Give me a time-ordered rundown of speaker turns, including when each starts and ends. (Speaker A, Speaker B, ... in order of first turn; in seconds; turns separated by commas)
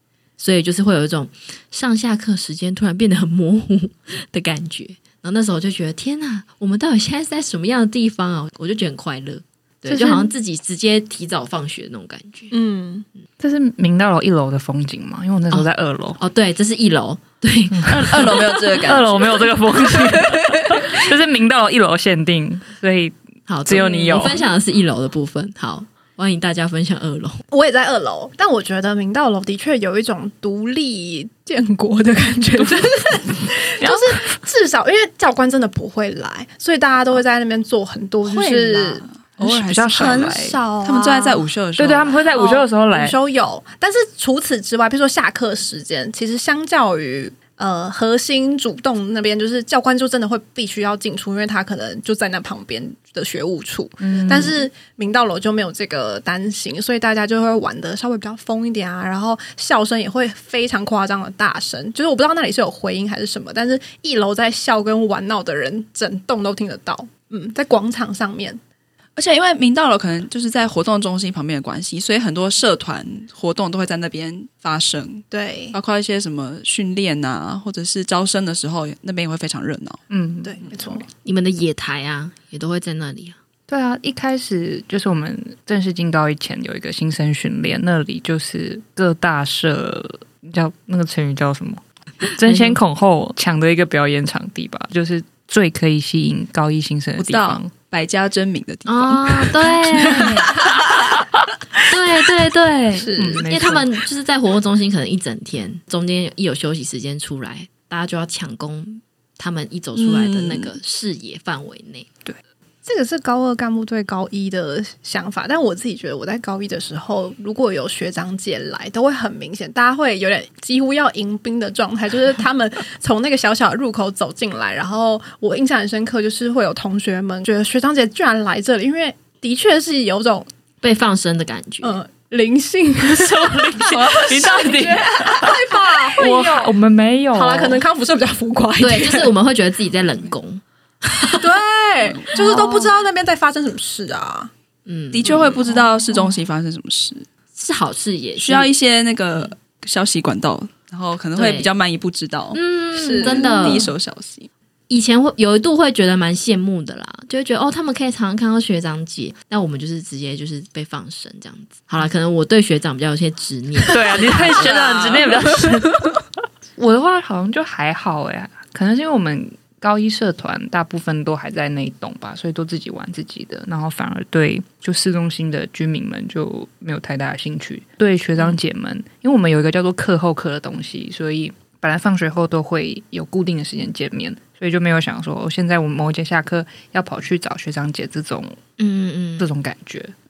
Speaker A: 0.4-12.5, Speaker B: 9.9-10.3, Speaker B: 12.5-13.1, Speaker C: 13.4-16.2, Speaker A: 16.2-18.3, Speaker C: 17.7-24.4, Speaker D: 18.1-20.9, Speaker A: 23.5-27.4, Speaker B: 27.5-39.0, Speaker C: 32.6-33.0, Speaker C: 33.8-34.3, Speaker D: 38.2-42.2, Speaker C: 39.4-40.6, Speaker B: 39.9-41.5, Speaker C: 41.8-43.2, Speaker B: 42.3-68.6, Speaker C: 54.0-54.6, Speaker D: 69.2-80.0, Speaker B: 75.3-75.8, Speaker C: 80.1-81.1, Speaker B: 80.4-81.0, Speaker A: 81.2-83.4, Speaker C: 83.7-97.7, Speaker A: 92.4-92.8, Speaker D: 97.2-100.5, Speaker A: 98.8-100.5, Speaker C: 100.0-100.5, Speaker A: 101.9-112.1, Speaker C: 102.5-103.9, Speaker B: 103.0-103.5, Speaker D: 110.0-110.8, Speaker B: 112.8-130.5, Speaker A: 130.8-132.0, Speaker B: 131.8-136.7, Speaker C: 133.1-137.8, Speaker B: 137.3-139.3, Speaker A: 138.8-141.5, Speaker B: 141.3-144.5, Speaker D: 142.0-142.4, Speaker C: 142.3-142.8, Speaker A: 144.8-145.7, Speaker D: 145.1-147.2, Speaker A: 147.6-148.7, Speaker D: 148.4-152.6, Speaker A: 151.3-151.7, Speaker A: 152.5-153.9, Speaker B: 152.9-153.8, Speaker D: 153.2-154.5, Speaker A: 154.9-164.8, Speaker C: 163.8-166.2, Speaker D: 164.5-165.2, Speaker C: 166.8-188.6, Speaker A: 188.8-189.5, Speaker C: 189.4-190.1